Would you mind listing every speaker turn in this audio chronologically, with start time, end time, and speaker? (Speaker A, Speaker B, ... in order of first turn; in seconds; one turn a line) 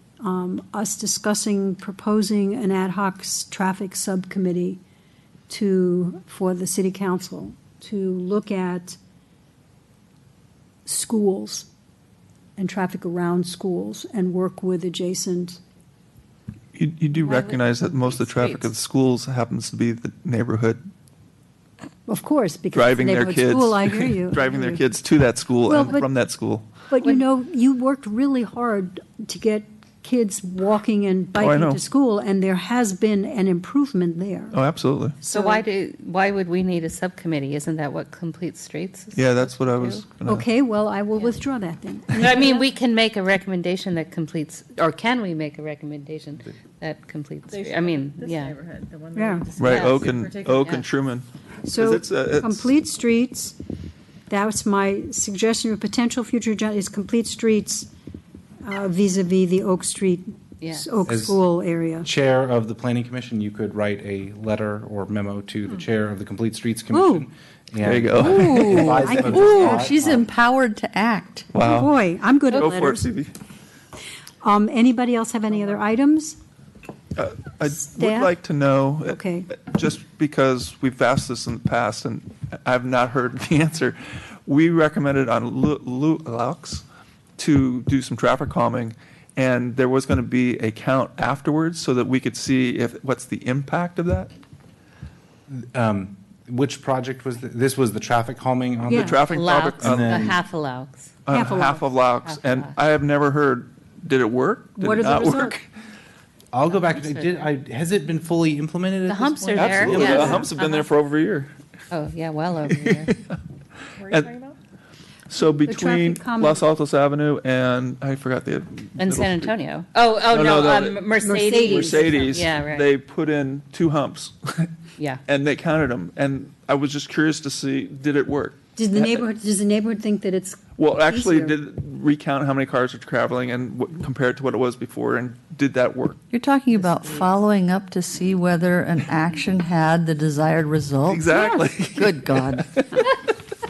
Speaker A: 0.2-4.8
Speaker A: 5.5-9.0
Speaker A: 10.8-11.7
Speaker A: 12.6-15.6
Speaker B: 16.7-20.8
Speaker C: 17.2-18.7
Speaker A: 22.1-24.8
Speaker B: 22.7-26.7
Speaker A: 25.6-26.1
Speaker A: 26.9-34.6
Speaker B: 31.4-31.8
Speaker B: 34.5-35.2
Speaker C: 35.2-40.0
Speaker A: 35.2-35.6
Speaker B: 39.1-40.5
Speaker A: 40.2-42.2
Speaker C: 42.1-48.6
Speaker D: 47.5-50.8
Speaker A: 49.1-49.5
Speaker B: 49.6-52.6
Speaker C: 49.6-50.1
Speaker A: 51.6-53.5
Speaker A: 54.3-57.9
Speaker A: 58.6-62.1
Speaker C: 60.6-61.0
Speaker E: 61.1-61.4
Speaker E: 62.0-70.3
Speaker A: 66.9-67.2
Speaker B: 67.8-69.3
Speaker A: 68.2-69.8
Speaker F: 68.2-71.5
Speaker B: 71.5-71.9
Speaker A: 71.6-73.1
Speaker B: 72.5-73.3
Speaker A: 74.4-76.4
Speaker B: 77.2-86.8
Speaker A: 77.7-78.3
Speaker A: 79.0-79.5
Speaker B: 87.4-94.3
Speaker E: 95.5-99.2
Speaker B: 98.9-100.3
Speaker A: 98.9-99.2
Speaker C: 99.2-101.1
Speaker E: 99.8-100.4
Speaker B: 101.2-105.6
Speaker A: 101.3-101.8
Speaker C: 102.2-102.7
Speaker A: 104.8-105.6
Speaker E: 106.5-110.5
Speaker C: 106.7-107.4
Speaker C: 109.0-110.9
Speaker B: 109.5-111.5
Speaker A: 109.9-110.5
Speaker C: 111.9-113.1
Speaker B: 112.7-113.1
Speaker D: 114.0-114.5
Speaker B: 115.3-119.5
Speaker A: 115.7-116.6
Speaker C: 119.0-122.9
Speaker B: 120.3-124.7
Speaker A: 121.2-122.3
Speaker B: 125.3-129.2
Speaker A: 128.8-131.6
Speaker B: 130.8-136.2
Speaker F: 136.3-141.3
Speaker C: 136.7-137.3
Speaker B: 141.1-143.1
Speaker A: 141.3-141.7
Speaker F: 141.9-142.7